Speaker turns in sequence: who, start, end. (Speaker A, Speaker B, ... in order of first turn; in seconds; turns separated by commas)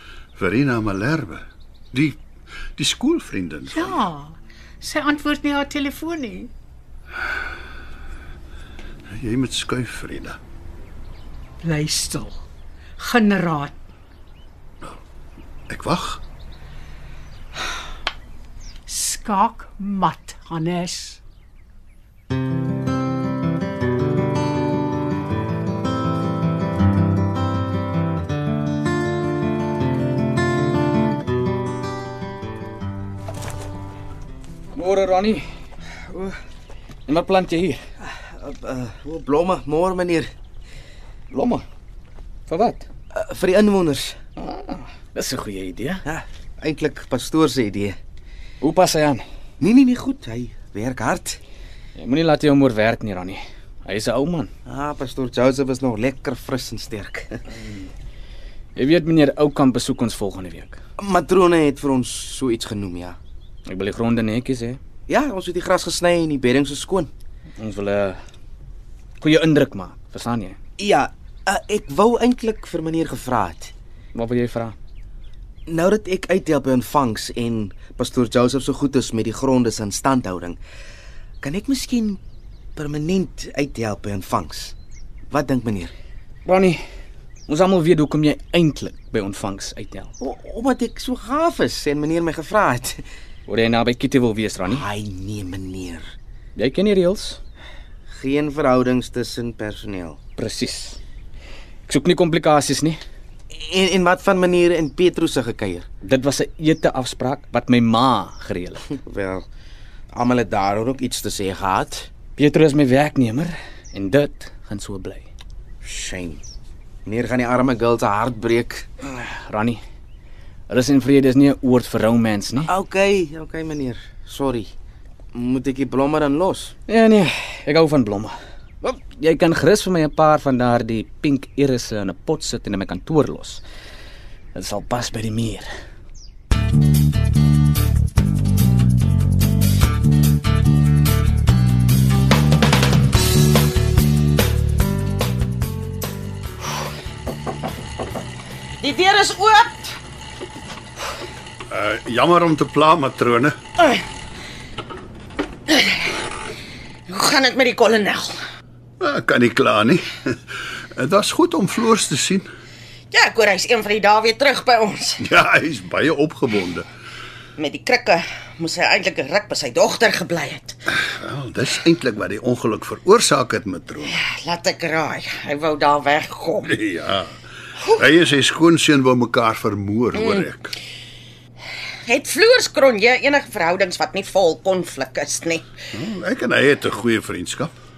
Speaker A: 0.3-2.2, Speaker A: 2.8-4.1, Speaker B: 3.7-6.5, Speaker A: 9.1-10.4, Speaker B: 11.6-12.4, Speaker B: 13.0-13.8, Speaker A: 15.7-16.2, Speaker B: 18.9-21.2, Speaker C: 34.7-35.4, Speaker C: 37.1-37.8, Speaker D: 38.0-40.3, Speaker C: 41.3-41.6, Speaker C: 42.5-42.9, Speaker D: 43.1-44.2, Speaker C: 44.4-46.0, Speaker D: 46.0-48.0, Speaker C: 48.6-49.2, Speaker D: 49.6-51.4, Speaker C: 52.0-54.5, Speaker D: 54.6-57.3, Speaker C: 58.8-60.8, Speaker D: 61.0-63.2, Speaker C: 63.7-64.8, Speaker D: 65.1-67.1, Speaker C: 67.6-68.2, Speaker C: 69.2-70.6, Speaker D: 70.8-73.7, Speaker C: 74.1-74.8, Speaker D: 75.7-80.6, Speaker D: 81.4-82.2, Speaker D: 82.8-84.7, Speaker D: 85.3-85.9, Speaker C: 86.5-86.8, Speaker C: 87.5-90.1, Speaker D: 90.2-93.0, Speaker C: 93.5-94.8, Speaker D: 94.7-96.1, Speaker C: 96.5-97.4, Speaker D: 98.1-100.2, Speaker C: 100.4-101.0, Speaker C: 101.9-103.0, Speaker D: 103.5-105.8, Speaker C: 106.0-108.8, Speaker D: 108.9-109.5, Speaker D: 110.1-112.1, Speaker C: 112.4-115.2, Speaker D: 115.8-116.4, Speaker D: 117.0-118.9, Speaker C: 119.0-119.8, Speaker C: 120.7-122.7, Speaker D: 122.6-124.7, Speaker D: 125.3-126.7, Speaker C: 126.9-128.3, Speaker C: 128.8-133.6, Speaker C: 134.5-135.7, Speaker E: 148.8-150.0, Speaker A: 151.7-153.5, Speaker E: 153.8-154.0, Speaker E: 155.7-156.3, Speaker E: 157.1-158.3, Speaker A: 159.0-162.5, Speaker E: 163.1-165.2, Speaker A: 165.2-166.8, Speaker E: 167.6-170.8, Speaker A: 170.9-174.2, Speaker E: 174.0-176.7, Speaker A: 176.6-177.4, Speaker A: 177.9-180.7, Speaker E: 182.0-185.7, Speaker A: 185.9-187.7